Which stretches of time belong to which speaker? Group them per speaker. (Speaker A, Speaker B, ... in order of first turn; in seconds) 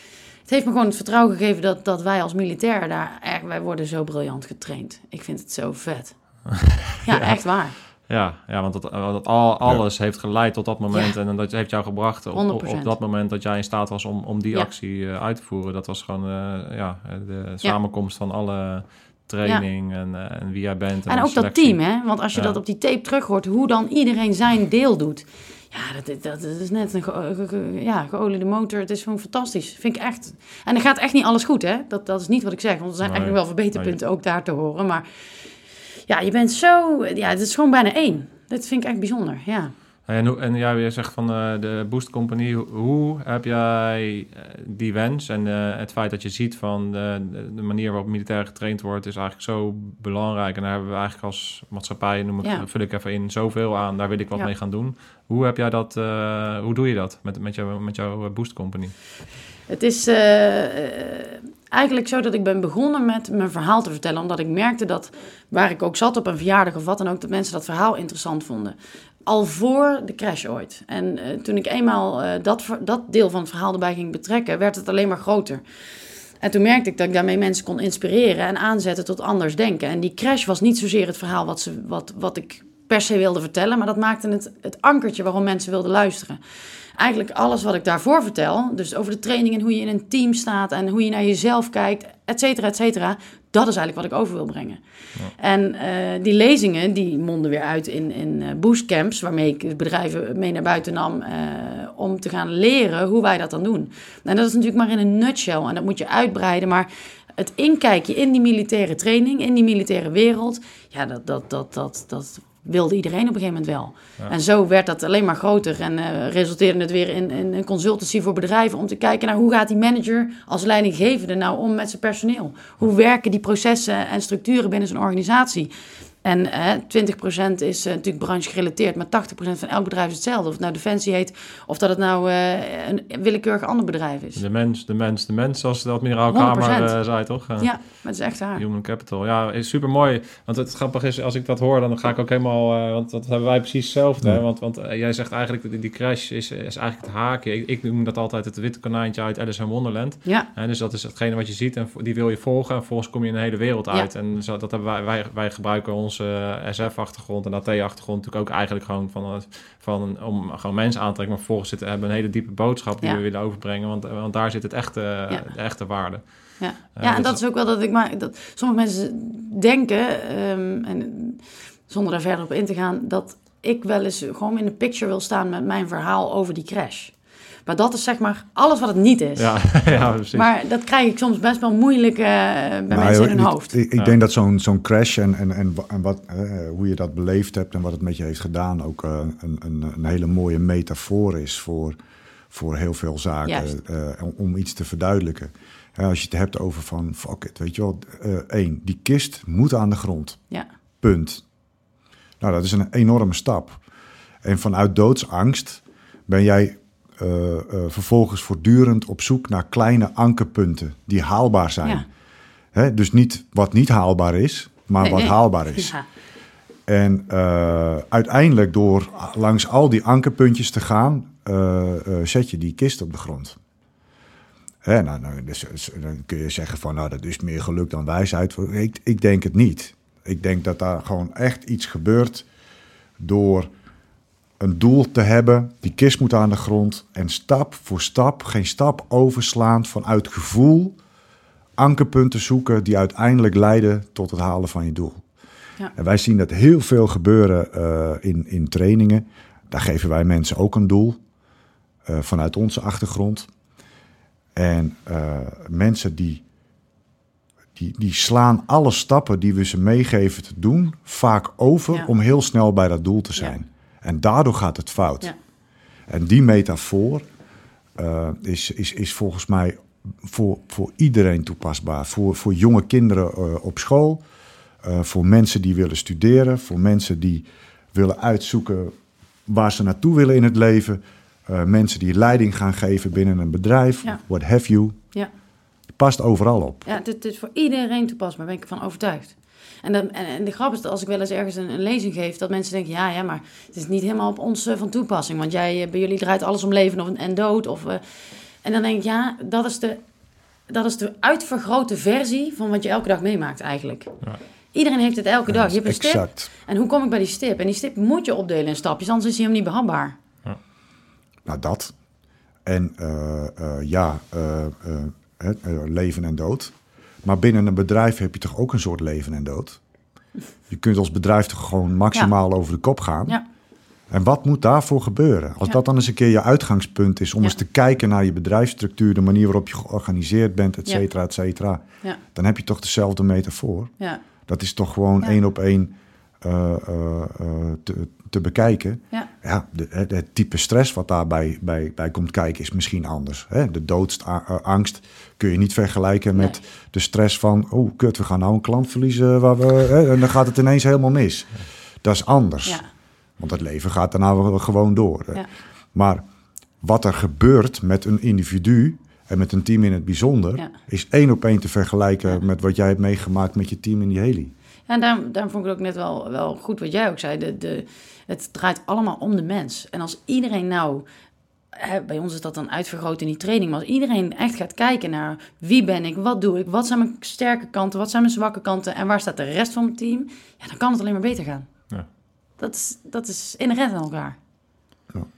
Speaker A: 0.5-6.5, 7.0-7.8, 12.3-13.0, 21.1-35.0, 36.1-39.7, 59.7-75.6, 76.4-86.4, 87.0-94.8, 95.4-125.7, 126.2-134.4, 136.3-138.6, 166.6-177.2, 177.7-183.7, 193.5-193.7, 215.0-216.0, 286.9-298.0, 298.6-300.0, 300.7-304.1, 304.7-310.2, 346.3-346.6, 364.9-371.1, 371.7-381.7, 382.6-384.4
Speaker B: 6.5-21.8, 22.3-22.6, 33.0-34.0, 40.1-59.0, 134.4-167.4, 179.4-180.5
Speaker C: 182.9-192.0, 192.5-200.4, 201.0-201.4, 202.4-203.8, 204.4-212.1, 212.7-215.9, 216.9-223.6, 224.8-232.5, 233.2-233.7, 234.6-241.0, 241.8-245.2, 245.9-251.2, 252.1-253.5, 254.6-256.4, 257.8-265.4, 266.1-267.2, 268.0-274.2, 274.8-278.9, 279.5-285.0, 286.0-286.9, 305.5-306.5, 311.4-311.9, 312.6-319.8, 320.7-323.4, 324.1-333.9, 334.5-352.8, 353.4-356.2, 356.8-364.5